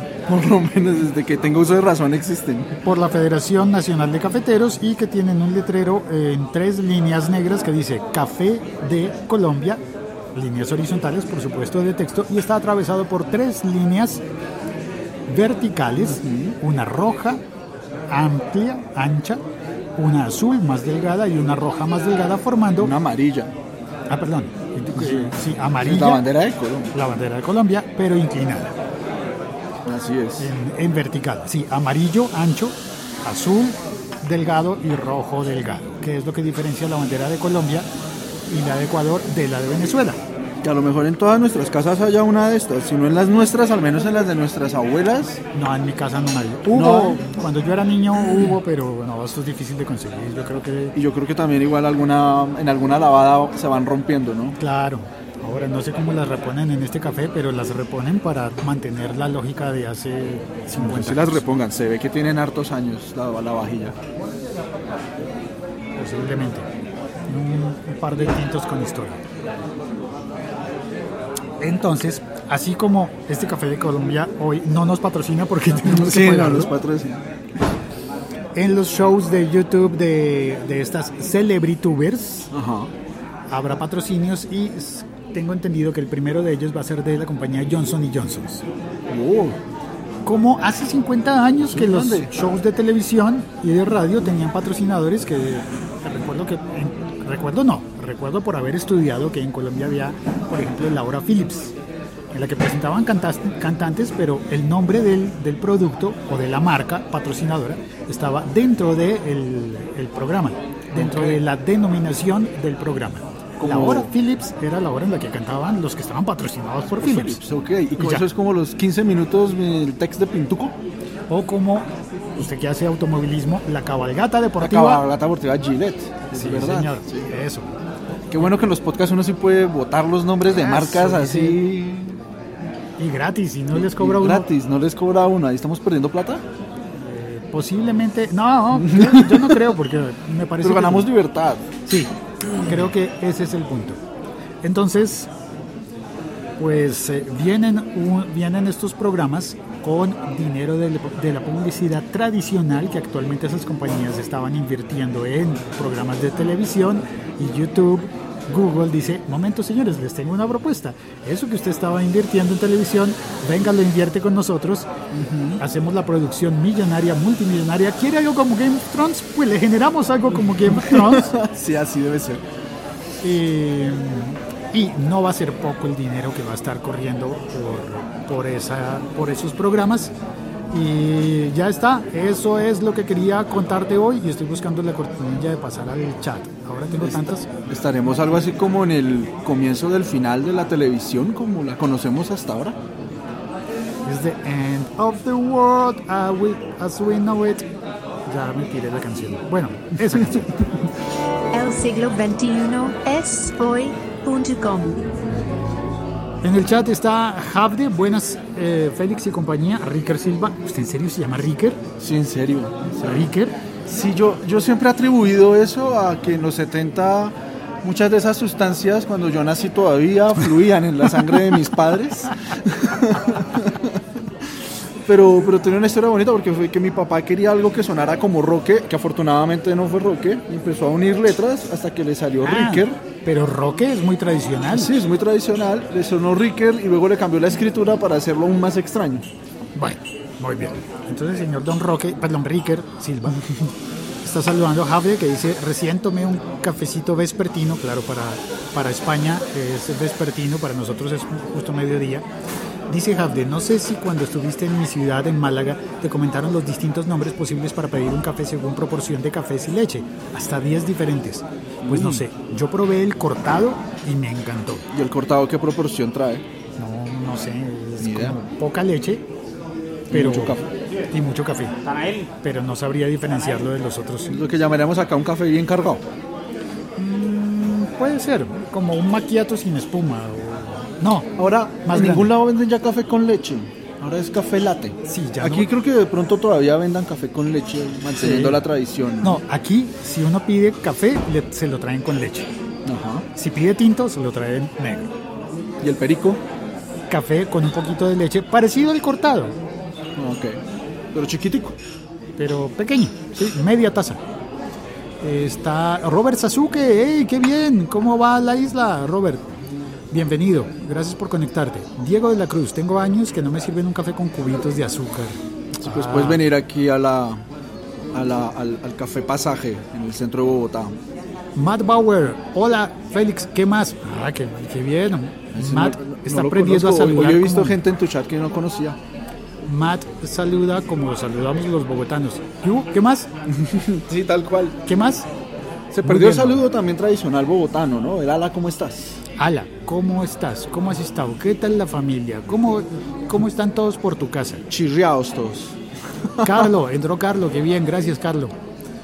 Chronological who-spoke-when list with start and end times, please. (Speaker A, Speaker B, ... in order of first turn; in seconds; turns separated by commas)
Speaker A: 0.3-2.8, Speaker B: 2.8-9.8, Speaker B: 10.3-14.2, Speaker B: 15.3-17.4, Speaker A: 16.0-16.6, Speaker B: 18.1-19.4, Speaker B: 20.0-22.9, Speaker A: 22.8-23.5, Speaker B: 24.1-26.2, Speaker A: 24.9-26.9, Speaker B: 26.9-28.8, Speaker A: 29.9-30.5, Speaker B: 30.4-37.9, Speaker B: 38.5-40.2, Speaker A: 40.6-45.4, Speaker B: 45.5-51.0, Speaker A: 46.7-47.2, Speaker A: 50.9-54.6, Speaker B: 54.6-61.4, Speaker A: 60.8-64.0, Speaker B: 66.0-66.7, Speaker B: 67.3-69.2, Speaker B: 71.6-76.7, Speaker A: 75.7-77.2, Speaker B: 78.5-82.5, Speaker A: 82.5-82.9, Speaker B: 83.5-88.6, Speaker A: 89.1-89.6, Speaker B: 90.2-101.7, Speaker A: 91.6-92.3, Speaker B: 102.3-117.4, Speaker A: 110.9-111.4, Speaker A: 113.6-114.1, Speaker A: 117.0-120.8, Speaker B: 118.0-118.3, Speaker B: 121.3-125.0, Speaker A: 124.6-127.3, Speaker B: 126.3-127.7, Speaker A: 128.3-132.2, Speaker B: 130.5-131.6, Speaker B: 133.0-134.5, Speaker A: 133.7-136.4, Speaker B: 137.0-141.1, Speaker A: 138.7-139.8, Speaker A: 140.6-141.7, Speaker B: 141.9-144.0, Speaker B: 144.6-145.3, Speaker B: 146.6-164.9, Speaker A: 165.1-165.6, Speaker B: 165.6-171.3, Speaker A: 170.7-172.4, Speaker B: 173.2-180.1, Speaker B: 180.7-187.5, Speaker A: 187.0-192.8, Speaker B: 194.1-197.7, Speaker B: 198.3-200.5, Speaker C: 201.5-205.0, Speaker B: 206.4-211.8, Speaker A: 212.0-213.3, Speaker B: 213.0-213.5, Speaker A: 213.9-224.0, Speaker A: 225.1-233.0, Speaker B: 232.4-234.9, Speaker A: 234.7-239.3, Speaker B: 239.8-252.2, Speaker B: 252.9-264.8, Speaker A: 261.8-262.2, Speaker A: 264.9-266.4, Speaker B: 266.8-269.2, Speaker A: 268.0-268.4, Speaker A: 270.1-270.7, Speaker B: 270.1-271.8, Speaker A: 271.9-272.3, Speaker B: 272.3-274.3, Speaker A: 274.3-276.0, Speaker B: 277.0-282.3, Speaker A: 281.4-289.4, Speaker B: 285.1-285.7, Speaker B: 288.2-288.6, Speaker B: 289.2-292.5, Speaker A: 292.9-293.3, Speaker B: 293.4-295.1, Speaker A: 295.8-296.4, Speaker B: 297.1-299.6, Speaker A: 300.2-300.6, Speaker A: 301.1-301.8, Speaker B: 302.4-304.2, Speaker B: 305.2-309.5, Speaker B: 310.1-316.4, Speaker A: 315.8-317.4, Speaker A: 318.1-321.0, Speaker B: 321.6-327.8, Speaker A: 325.6-329.0, Speaker B: 329.7-333.3, Speaker A: 333.5-334.8, Speaker B: 334.9-335.3, Speaker A: 335.9-339.2, Speaker B: 336.0-336.6, Speaker B: 339.4-344.6, Speaker A: 344.7-345.8, Speaker A: 346.4-346.7, Speaker B: 346.4-348.6